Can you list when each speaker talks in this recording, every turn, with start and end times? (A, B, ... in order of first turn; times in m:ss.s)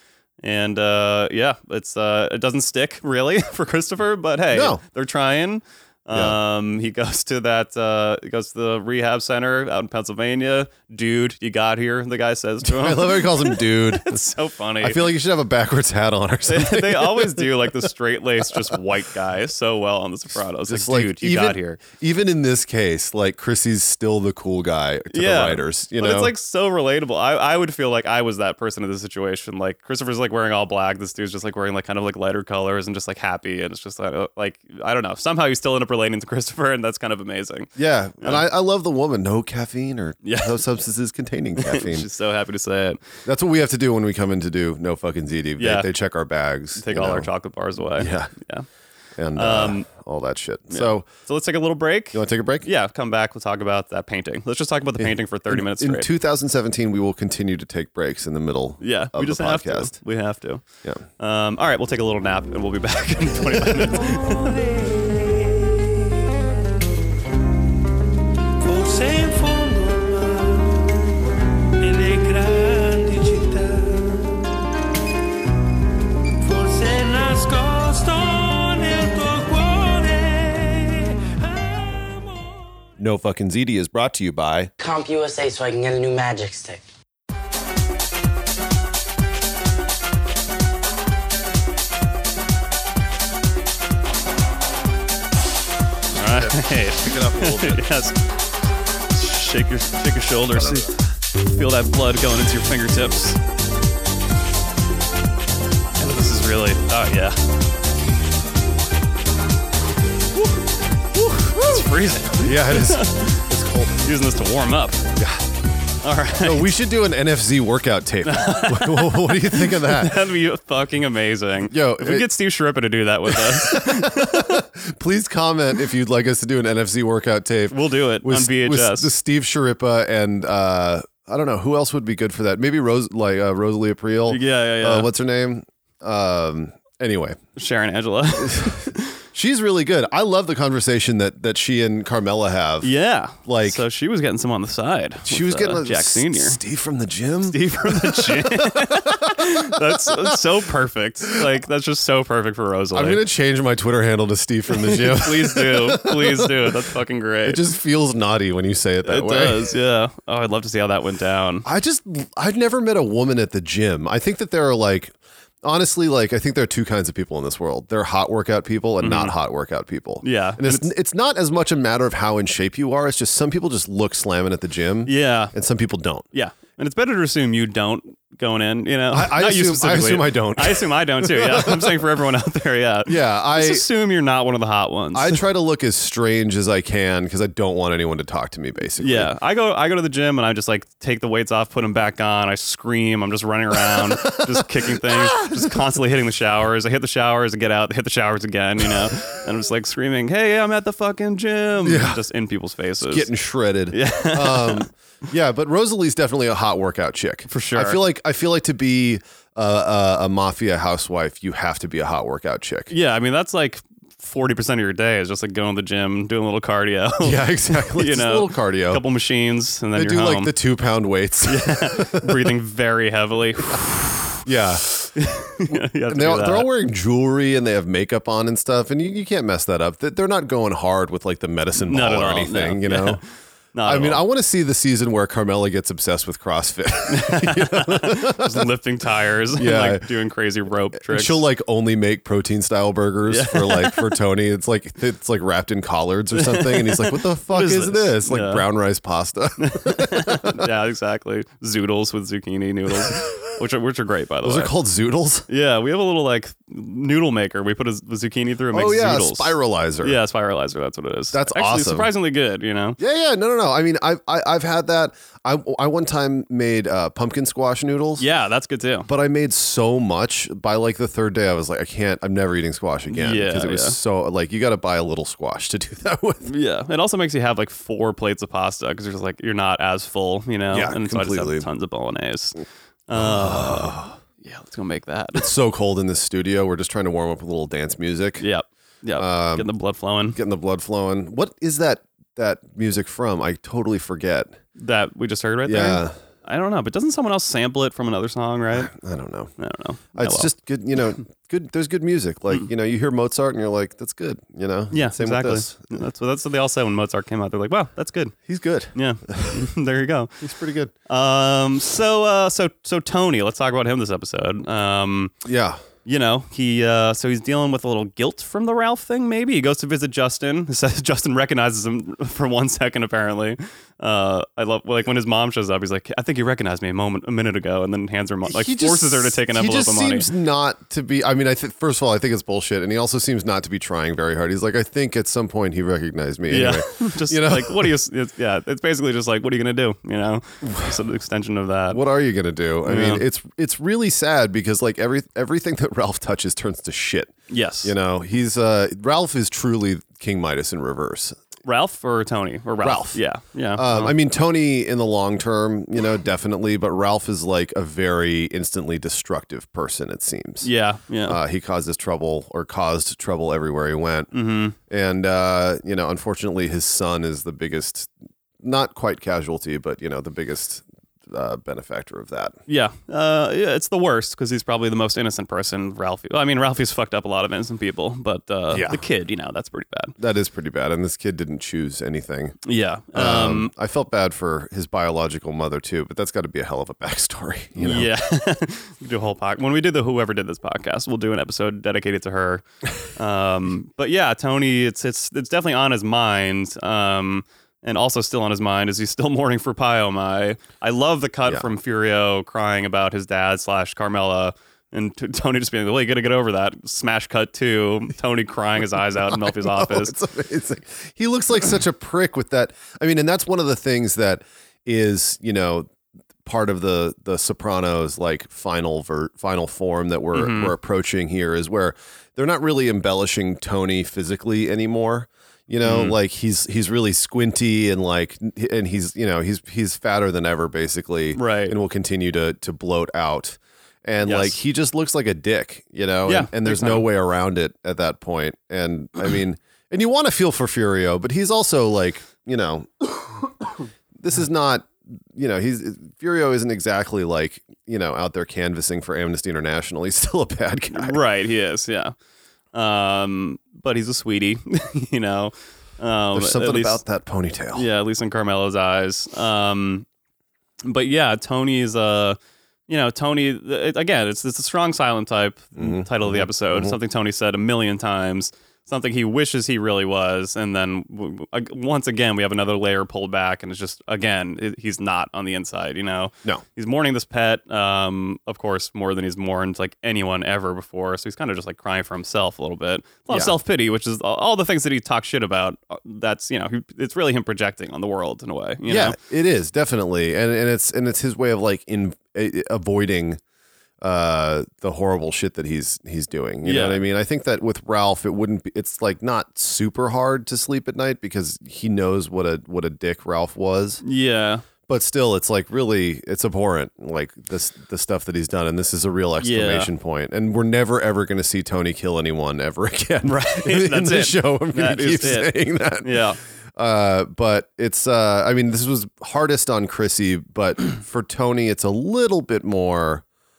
0:00.4-0:15.0 A
0:04.5-0:04.8 B
0:12.6-0:14.2 B
0:14.8-0:17.7 B
0:16.5-0:21.8 A
0:20.7-0:26.3 B
0:25.1-0:38.4 A
0:37.8-0:42.1 B
0:40.2-0:40.5 A
0:41.6-0:43.0 A
0:43.2-0:47.3 B
0:45.6-0:45.9 A
0:46.8-0:48.6 A
0:47.9-0:48.3 B
0:49.2-0:51.1 B
0:49.4-0:49.9 A
0:50.7-0:56.1 A
0:52.1-0:52.6 B
0:55.0-1:00.0 B
0:58.8-1:00.6 A
1:01.2-1:04.6 A
1:04.1-1:05.7 C
1:08.6-1:10.8 C
1:11.8-1:14.4 C
1:16.4-1:22.5 C
1:23.0-1:24.7 B
1:24.8-1:26.8 D
1:36.1-1:38.2 A
1:36.2-1:37.8 B
1:39.1-1:43.4 A
1:40.5-1:40.9 B
1:46.0-1:47.4 A
1:51.2-1:53.5 A
1:52.3-1:54.0 B
1:54.0-1:55.0 A
1:55.2-1:55.4 B
1:56.0-1:56.7 A
1:56.4-2:00.2 B
1:58.2-2:04.6 A
2:01.7-2:02.3 B
2:03.3-2:17.4 B
2:07.7-2:09.1 A
2:14.3-2:15.1 A
2:17.6-2:19.2 A
2:18.4-2:22.9 B
2:22.8-2:26.6 A
2:23.4-2:23.8 B
2:25.2-2:30.4 B
2:27.4-2:33.2 A
2:32.9-2:36.7 B
2:34.7-2:37.6 A
2:37.4-2:39.7 B
2:39.0-2:41.6 A
2:41.6-2:56.2 B
2:49.0-2:49.3 A
2:50.2-2:50.9 A
2:55.0-2:55.5 A
2:56.3-3:05.4 A
2:59.1-3:02.0 B
3:03.0-3:03.8 B
3:05.1-3:09.3 B
3:09.0-3:23.3 A
3:13.9-3:14.5 B
3:15.0-3:15.8 B
3:21.8-3:22.2 B
3:23.0-3:32.9 B
3:23.9-3:24.9 A
3:27.5-3:28.0 A
3:32.9-3:40.5 A
3:37.2-3:39.0 B
3:39.9-3:42.5 B
3:41.4-3:44.4 A
3:44.4-3:44.9 B
3:45.1-3:46.7 A
3:45.6-3:53.2 B
3:51.8-3:54.2 A
3:53.8-3:58.7 B
3:57.1-4:01.4 A
3:59.6-4:00.1 B
4:01.0-4:10.7 B
4:03.3-4:04.1 A
4:06.3-4:08.6 A
4:09.6-4:14.7 A
4:13.0-4:13.4 B
4:14.4-4:15.5 B
4:15.5-4:23.0 A
4:18.7-4:20.2 B
4:21.3-4:22.1 B
4:23.0-4:28.2 B
4:28.2-4:29.1 A
4:29.0-4:36.5 B
4:33.1-4:34.0 A
4:36.4-4:45.5 A
4:40.7-4:41.7 B
4:43.1-4:44.1 B
4:45.3-4:48.4 B
4:48.4-4:50.4 A
4:49.2-4:49.7 B
4:50.3-4:54.6 B
4:54.8-4:58.9 A
4:55.6-4:56.1 B
4:58.7-4:59.5 B
4:59.6-5:00.5 A
5:00.1-5:06.0 B
5:04.9-5:08.3 A
5:08.5-5:09.6 B
5:08.9-5:10.4 A
5:10.4-5:10.9 B
5:11.1-5:15.3 A
5:15.4-5:15.8 B
5:16.0-5:30.3 A
5:28.4-5:37.9 B
5:36.5-5:42.0 A
5:41.9-5:51.4 B
5:42.8-5:43.2 A
5:47.5-5:47.9 A
5:51.6-5:54.1 A
5:52.8-5:53.2 B
5:53.8-6:00.7 B
6:00.6-6:01.4 A
6:01.2-6:04.3 B
6:04.3-6:04.8 A
6:04.9-6:12.6 B
6:12.7-6:20.1 A
6:18.7-6:19.0 B
6:20.2-6:22.6 B
6:22.6-6:23.7 A
6:23.1-6:28.1 B
6:27.8-6:50.1 A
6:49.3-6:55.9 B
6:56.4-7:23.6 B
7:00.3-7:00.7 A
7:05.8-7:06.2 A
7:11.3-7:11.8 A
7:14.2-7:14.6 A
7:16.2-7:17.1 A
7:24.2-7:31.2 B
7:30.9-7:32.1 A
7:32.7-7:37.0 A
7:36.3-7:37.9 B
7:37.7-7:40.0 A
7:40.8-8:09.2 A
7:45.8-7:47.0 B
8:08.9-8:13.4 B
8:14.0-8:24.0 B
8:16.6-8:17.0 A
8:24.0-8:24.6 A
8:24.9-8:36.2 B
8:29.4-8:29.9 A
8:33.2-8:36.4 A
8:36.7-8:43.2 B